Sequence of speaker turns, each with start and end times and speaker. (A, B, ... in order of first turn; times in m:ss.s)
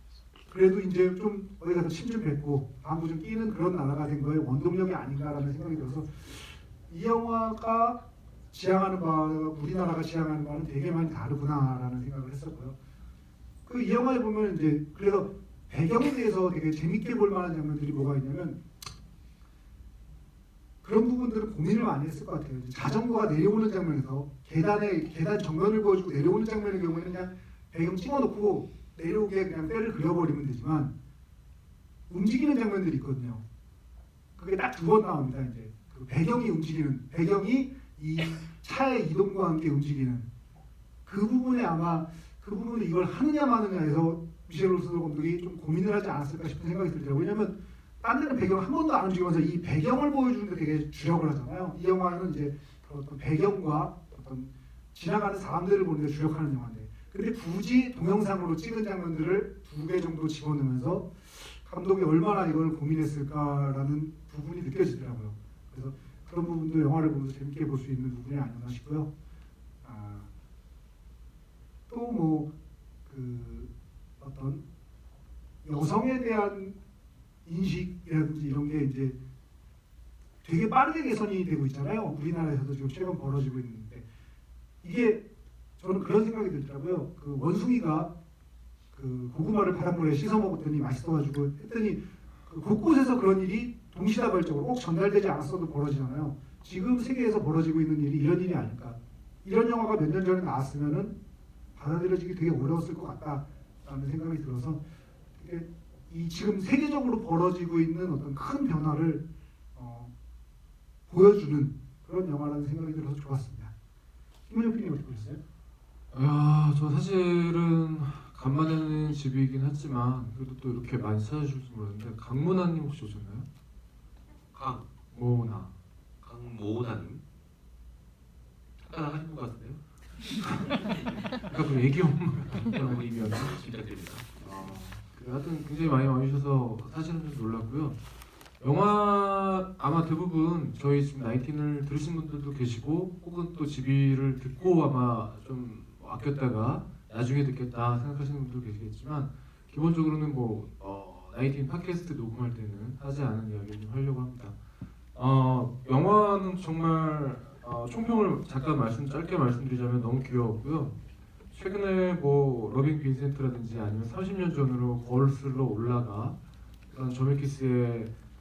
0:00.5-0:12.7 A
0:13.6-0:18.6 A
0:20.8-0:30.9 A
0:32.1-0:33.4 A
0:34.4-0:40.3 A
0:41.0-1:09.1 A
1:09.8-1:10.3 A
1:11.9-1:12.5 A
1:13.0-1:14.6 A
1:15.6-1:16.7 A
1:17.4-1:19.2 A
1:20.4-1:24.0 A
1:24.8-1:25.2 A
1:25.8-1:28.1 A
1:28.9-1:41.1 A
1:41.7-1:44.8 A
1:45.4-1:49.2 A
1:49.7-1:50.1 A
1:51.1-1:53.7 A
1:54.5-1:55.4 A
1:56.1-2:03.4 B
2:04.5-2:04.8 C
2:05.1-2:05.7 B
2:06.2-2:07.2 C
2:08.8-2:09.8 C
2:10.4-2:10.7 B
2:10.9-2:11.2 C
2:11.3-2:13.6 B
2:12.6-2:14.4 C
2:14.4-2:17.9 B
2:18.6-2:34.5 B
2:35.1-2:40.9 B
2:41.5-2:46.3 B
2:46.9-2:48.1 B